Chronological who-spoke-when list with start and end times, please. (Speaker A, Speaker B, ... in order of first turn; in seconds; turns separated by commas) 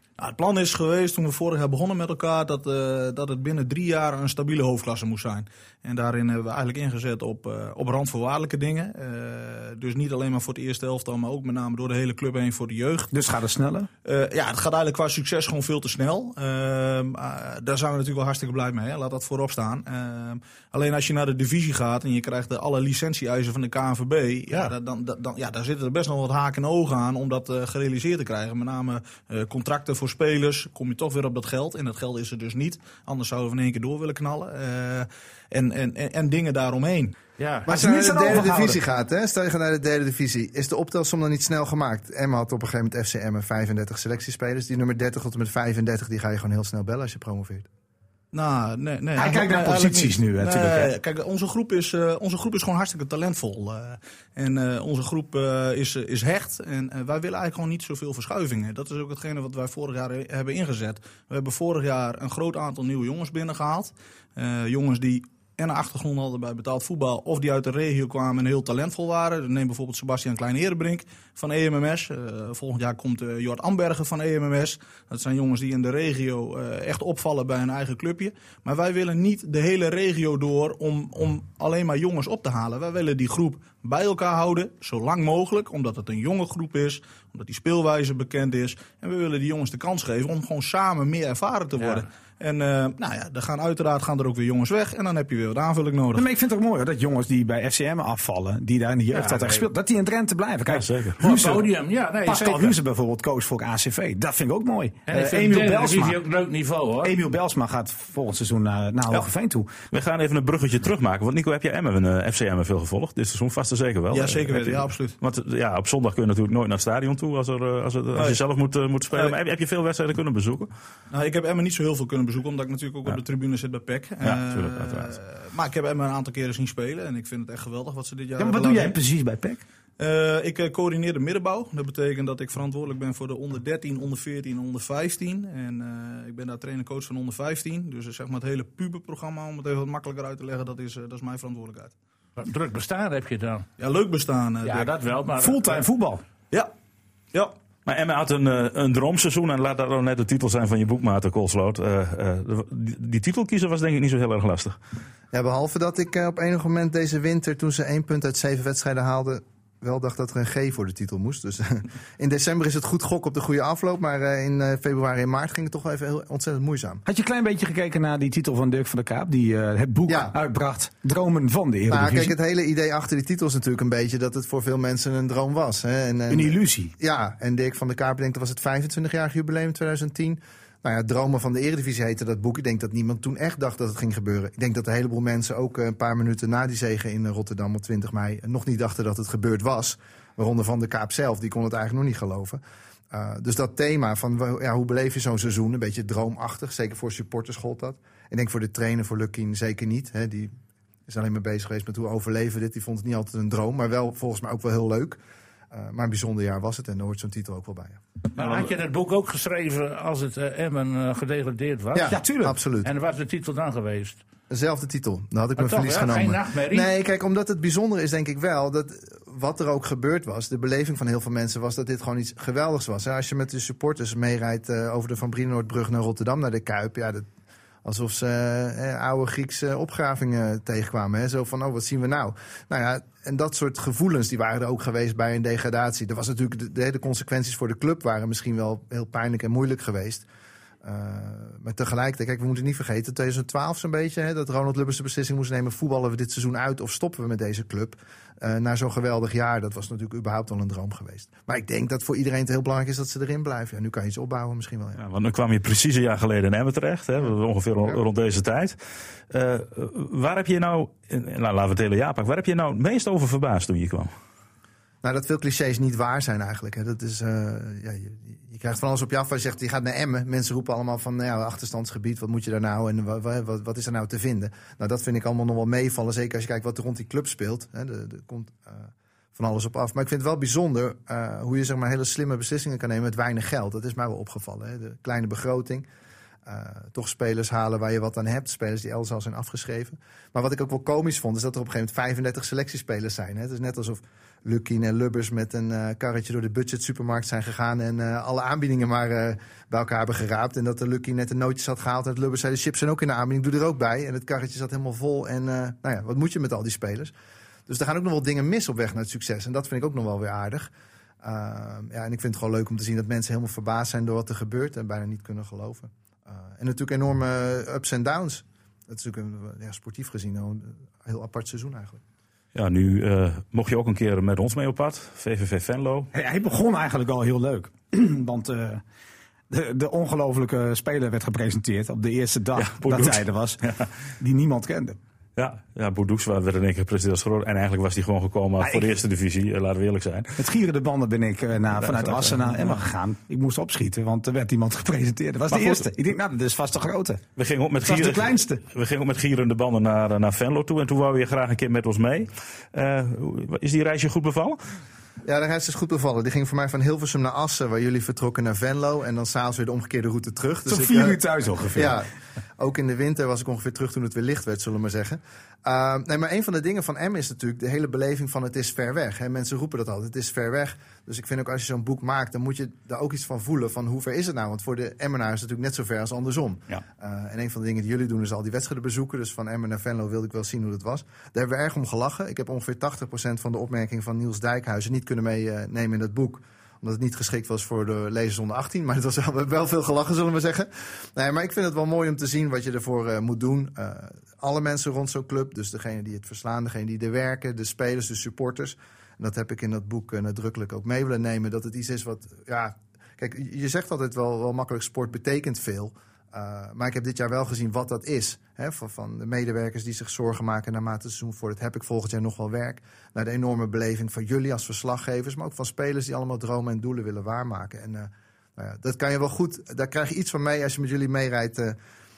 Speaker A: 0.2-13.1, Speaker B: 13.1-13.9, Speaker A: 14.0-37.1, Speaker C: 37.4-37.7, Speaker D: 37.6-47.7, Speaker B: 37.7-38.8, Speaker A: 48.3-96.2, Speaker B: 49.1-50.9, Speaker C: 91.8-92.0, Speaker B: 96.1-101.7, Speaker C: 99.1-99.7, Speaker E: 100.7-101.2, Speaker C: 101.2-102.8, Speaker B: 102.2-106.2, Speaker C: 105.1-107.2, Speaker B: 107.0-109.7, Speaker E: 109.9-120.7, Speaker A: 114.1-115.2, Speaker A: 118.1-118.4, Speaker A: 121.1-129.0, Speaker E: 124.2-125.2, Speaker B: 128.4-129.6, Speaker A: 130.0-141.9, Speaker C: 142.4-143.7, Speaker A: 143.8-144.9, Speaker C: 144.6-145.8, Speaker B: 145.4-146.2, Speaker E: 147.8-154.8, Speaker D: 155.3-167.0, Speaker B: 167.1-172.3, Speaker D: 170.1-170.3, Speaker D: 171.9-200.5, Speaker B: 176.3-176.9, Speaker D: 201.1-205.2, Speaker D: 205.7-208.0, Speaker C: 208.3-212.2, Speaker D: 211.9-212.9, Speaker B: 212.1-212.6, Speaker C: 212.8-214.2, Speaker D: 214.5-227.2, Speaker C: 215.6-216.9, Speaker D: 227.8-240.2, Speaker D: 240.8-255.0, Speaker E: 255.0-258.8, Speaker E: 259.3-264.1, Speaker D: 265.0-285.9, Speaker D: 286.4-307.1, Speaker D: 307.7-310.7, Speaker D: 311.2-322.0, Speaker E: 322.5-326.1, Speaker B: 326.1-328.8, Speaker B: 329.5-333.6, Speaker E: 332.6-333.9, Speaker B: 334.2-335.0, Speaker E: 335.4-340.4, Speaker B: 338.6-338.9, Speaker B: 340.4-347.2, Speaker E: 341.8-342.8, Speaker E: 345.5-345.9, Speaker E: 347.4-354.7, Speaker B: 347.8-348.6, Speaker D: 355.2-361.2, Speaker B: 360.7-362.0, Speaker D: 361.7-362.1, Speaker D: 362.6-421.8